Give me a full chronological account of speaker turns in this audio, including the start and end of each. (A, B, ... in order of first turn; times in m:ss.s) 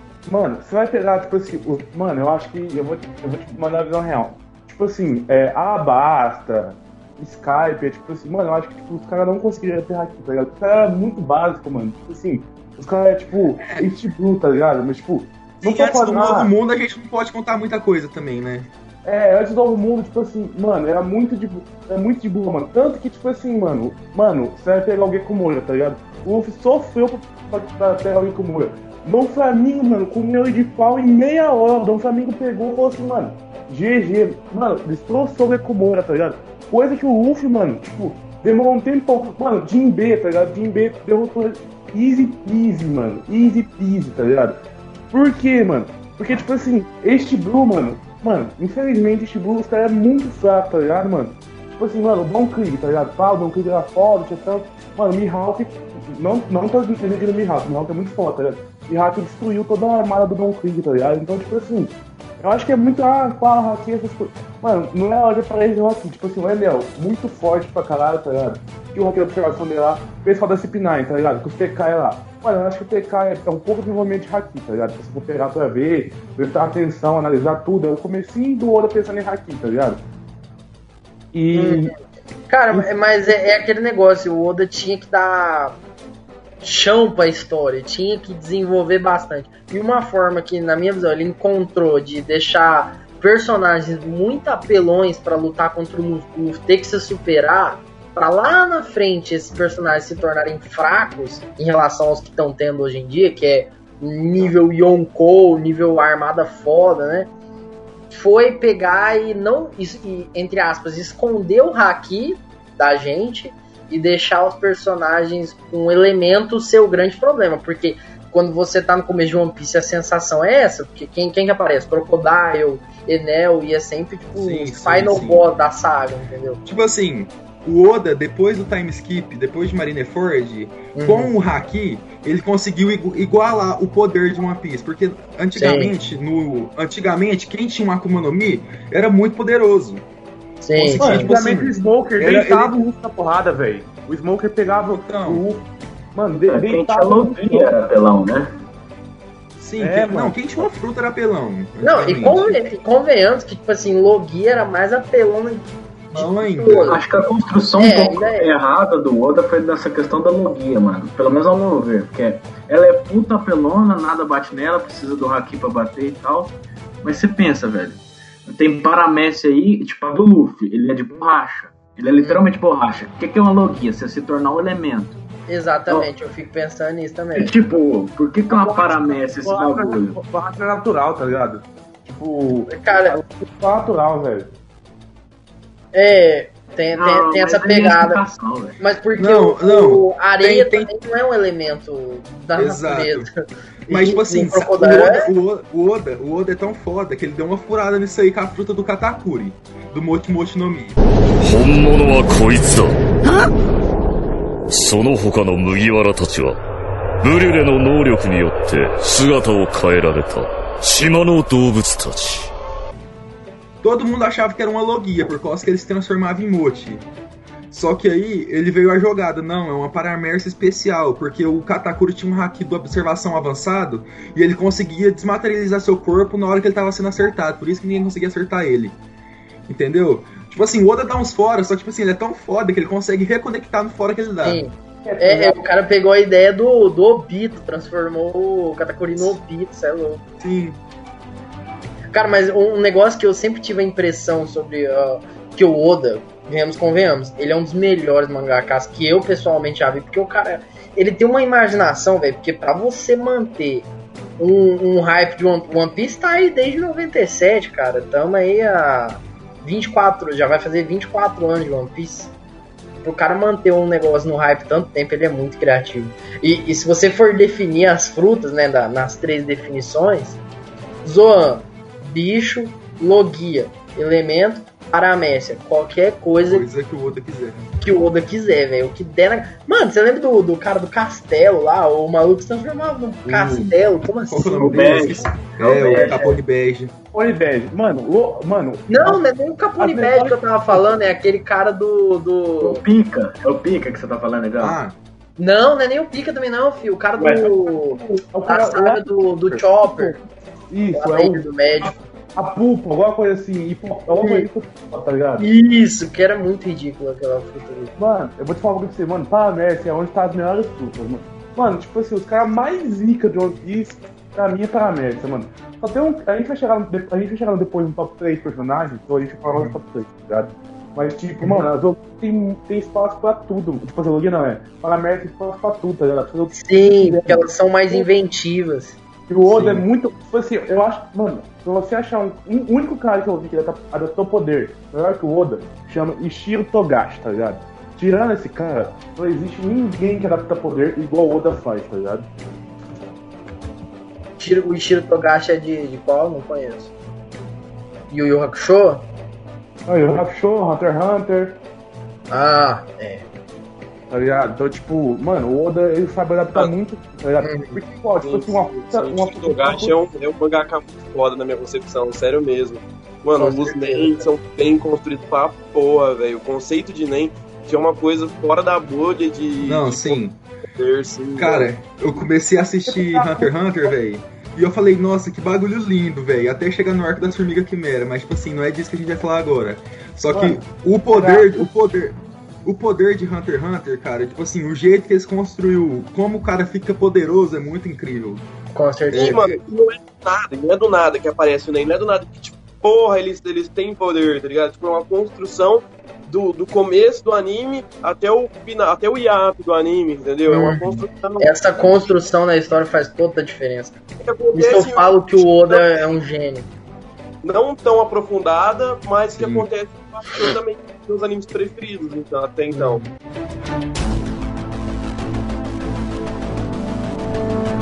0:00.3-0:16.5 A
0:13.6-0:13.9 B
0:15.6-0:18.7 B
0:19.0-0:44.6 A
0:45.1-1:20.0 A
1:21.3-1:21.9 A
1:21.5-1:21.9 C
1:22.5-1:25.8 C
1:26.6-1:47.3 C
1:48.1-2:06.6 C
2:04.4-2:05.4 B
2:06.6-2:20.0 B
2:11.0-2:11.3 C
2:15.6-2:16.0 C
2:20.6-2:21.3 C
2:20.8-2:22.8 B
2:21.0-2:27.7 A
2:24.9-2:25.4 B
2:26.4-2:28.5 D
2:29.6-2:32.6 B
2:29.8-2:30.7 A
2:31.8-2:37.0 C
2:36.1-2:37.0 B
2:36.9-2:55.2 D
2:37.8-2:38.5 C
2:52.2-2:52.4 C
2:55.5-2:57.6 C
2:57.4-3:00.2 D
2:58.5-3:04.5 A
3:02.7-3:03.2 C
3:05.9-3:08.2 C
3:06.9-3:08.8 D
3:08.8-3:13.3 C
3:09.2-3:10.9 B
3:12.6-3:13.3 B
3:13.9-3:15.3 C
3:13.9-3:21.0 B
3:21.4-3:23.0 E
3:24.7-3:26.6 E
3:27.2-3:32.5 E
3:33.8-3:37.1 B
3:37.7-3:49.0 B
3:49.7-3:54.6 B
3:54.4-4:00.2 C
3:55.0-3:55.6 A
4:00.4-4:00.8 B
4:02.1-4:13.9 C
4:14.4-4:22.3 C
4:23.0-4:30.4 C
4:31.0-4:36.7 C
4:36.5-4:37.7 B
4:37.8-4:46.4 C
4:43.3-4:43.7 A
4:44.3-4:46.9 B
4:44.6-4:46.2 D
4:47.1-4:49.2 A
4:48.9-4:52.8 C
4:49.8-4:50.9 A
4:52.6-4:54.8 D
4:54.6-4:55.0 B
4:55.4-5:00.2 C
4:57.2-5:05.4 A
5:01.0-5:02.0 C
5:04.1-5:04.5 C
5:05.4-5:07.9 C
5:08.0-5:28.1 A
5:26.5-5:29.0 C
5:29.3-5:42.3 A
5:29.4-5:29.8 B
5:44.4-5:46.9 C
5:48.1-5:49.0 C
5:49.9-5:51.6 A
5:52.3-5:53.2 C
5:54.1-6:00.0 A
5:57.4-5:57.8 C
5:58.2-6:10.2 F
6:03.4-6:04.2 C
6:09.6-6:10.4 B
6:10.8-6:11.7 F
6:11.4-6:28.4 B
6:12.9-6:13.9 A
6:20.3-6:20.6 A
6:21.1-6:21.6 A
6:28.7-6:29.5 C
6:29.1-6:29.5 B
6:29.1-6:42.2 F
6:40.5-6:46.7 C
6:44.2-6:46.1 F
6:47.4-6:53.0 F
6:49.3-6:49.7 B